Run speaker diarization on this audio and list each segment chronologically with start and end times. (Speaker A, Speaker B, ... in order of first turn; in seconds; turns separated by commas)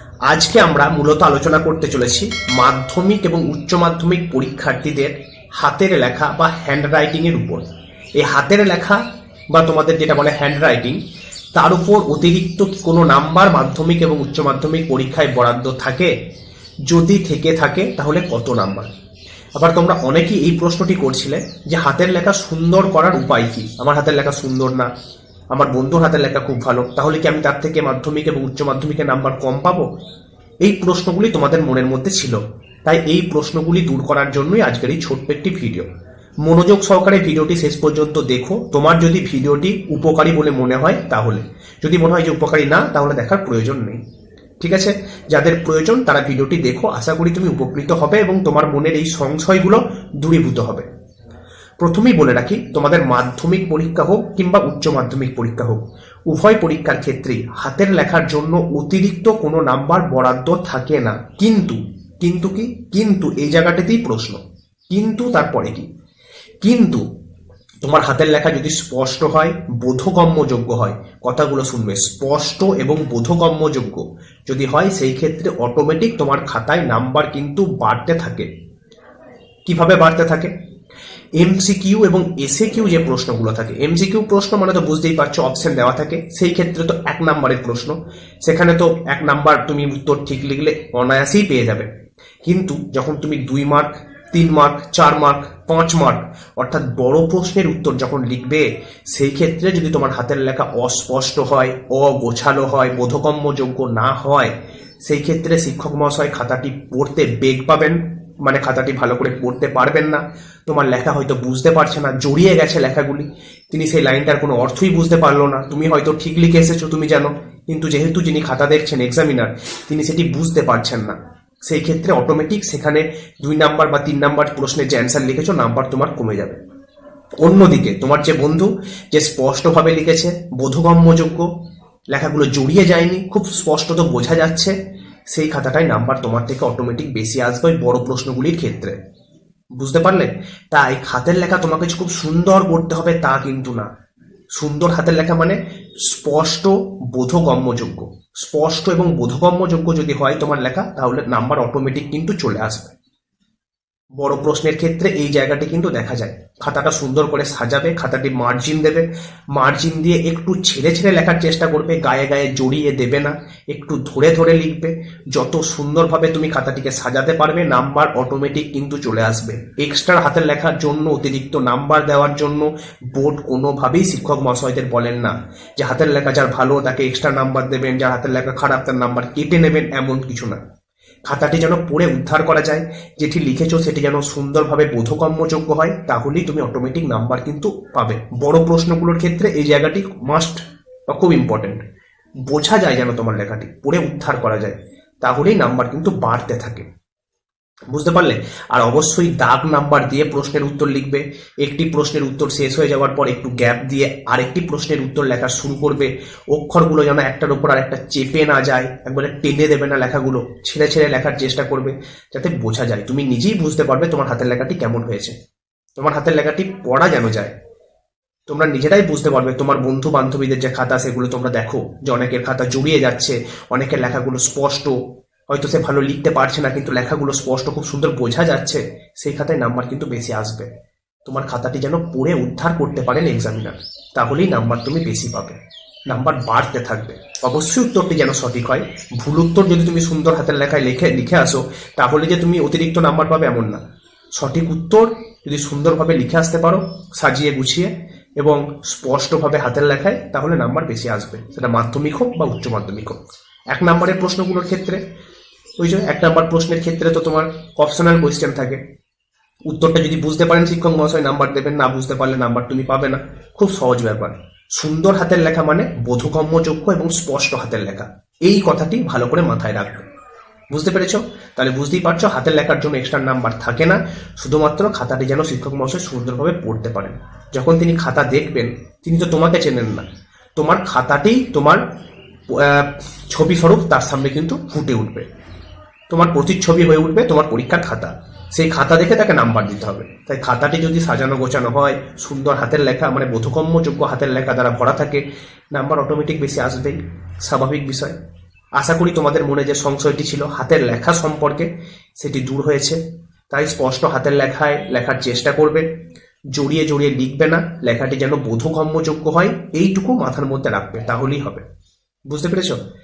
Speaker A: 0.3-7.6, Speaker A: 8.2-11.0, Speaker A: 11.5-16.1, Speaker A: 16.9-18.9, Speaker A: 19.6-24.9, Speaker A: 25.5-29.9, Speaker A: 30.6-35.9, Speaker A: 36.4-44.0, Speaker A: 44.6-50.9, Speaker A: 51.8-65.9, Speaker A: 66.6-67.0, Speaker A: 67.8-78.5, Speaker A: 79.7-80.5, Speaker A: 81.4-91.9, Speaker A: 92.4-104.5, Speaker A: 105.0-126.6, Speaker A: 127.4-131.5, Speaker A: 132.1-134.8, Speaker A: 135.3-138.9, Speaker A: 139.8-143.9, Speaker A: 144.5-152.9, Speaker A: 154.2-180.6, Speaker A: 181.2-191.8, Speaker A: 192.4-196.8, Speaker A: 197.9-215.3, Speaker A: 216.0-217.5, Speaker A: 218.5-224.9, Speaker A: 225.5-230.7, Speaker A: 231.2-235.6, Speaker A: 236.1-243.8, Speaker A: 244.4-253.2, Speaker A: 253.7-255.0, Speaker A: 255.8-258.8, Speaker A: 259.7-270.0, Speaker A: 270.7-281.8, Speaker A: 282.5-285.2, Speaker A: 286.1-295.2, Speaker A: 295.7-298.1, Speaker A: 298.8-301.7, Speaker A: 302.2-303.0, Speaker A: 303.5-305.9, Speaker A: 306.5-311.6, Speaker A: 312.3-312.8